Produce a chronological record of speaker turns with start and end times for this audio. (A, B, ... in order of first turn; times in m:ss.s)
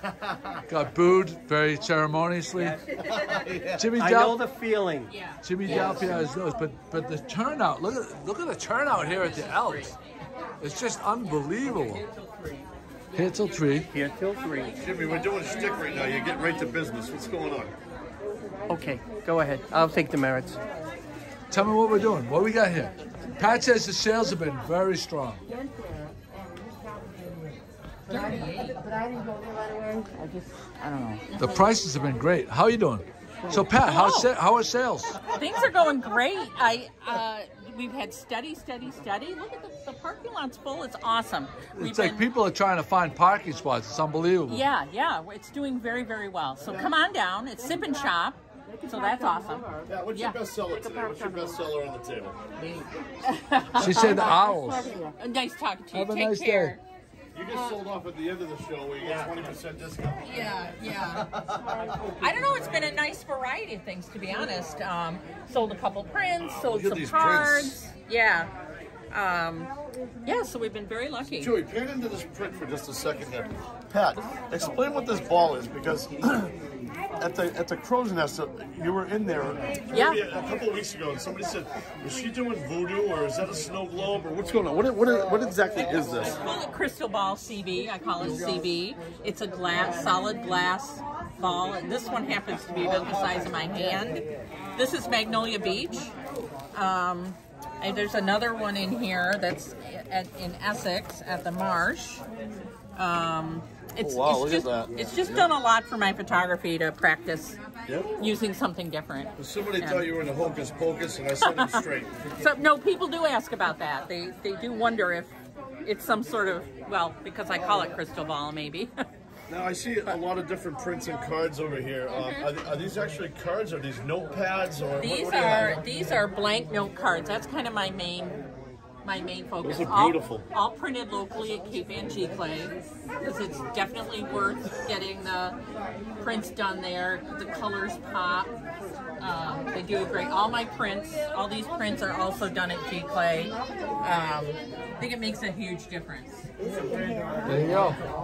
0:00.7-0:02.8 A
0:03.2-0:03.8 B
0:03.7-0:04.4 A
0:04.0-0:05.1 C
0:05.1-0:05.8 D
0:05.4-0:10.0 A
0:05.6-0:06.2 C
0:10.6-0:12.0 A
0:13.1-0:13.9 A
0:13.9-0:14.7 C
0:14.8-0:17.7 B
0:14.8-0:16.5 D
0:18.7-0:20.6 C
0:21.5-0:25.4 A
0:28.1-0:28.8 D
0:30.0-0:31.2 E
0:31.3-0:31.6 D
0:31.4-0:35.2 A
0:33.8-0:34.3 D
0:35.3-0:42.3 D
0:41.8-0:44.6 A
0:44.5-0:50.4 D
0:46.7-0:46.9 B
0:49.8-0:52.4 B
0:53.2-0:54.4 D
0:53.8-0:55.0 A
0:53.8-0:55.1 E
0:55.2-0:56.8 D
0:55.9-0:56.8 A
0:57.3-1:00.4 B
0:57.5-0:57.8 D
1:00.2-1:01.2 D
1:01.2-1:01.7 B
1:02.2-1:08.5 D
1:06.4-1:07.8 B
1:09.1-1:09.7 D
1:10.2-1:11.5 D
1:11.4-1:16.5 B
1:17.2-1:26.3 B
1:19.9-1:20.2 D
1:25.7-1:36.1 D
1:33.0-1:33.5 B
1:36.7-1:42.2 D
1:42.9-1:47.6 D
1:44.0-1:45.5 B
1:47.8-1:48.1 B
1:48.2-1:50.1 D
1:49.4-1:52.1 B
1:51.4-1:51.8 D
1:52.4-1:58.9 D
1:57.6-1:57.8 B
1:59.5-2:05.8 B
2:02.1-2:02.5 D
2:05.0-2:08.4 D
2:09.0-2:15.6 D
2:09.6-2:10.4 B
2:16.2-2:18.5 D
2:19.2-2:26.5 D
2:27.4-2:28.0 A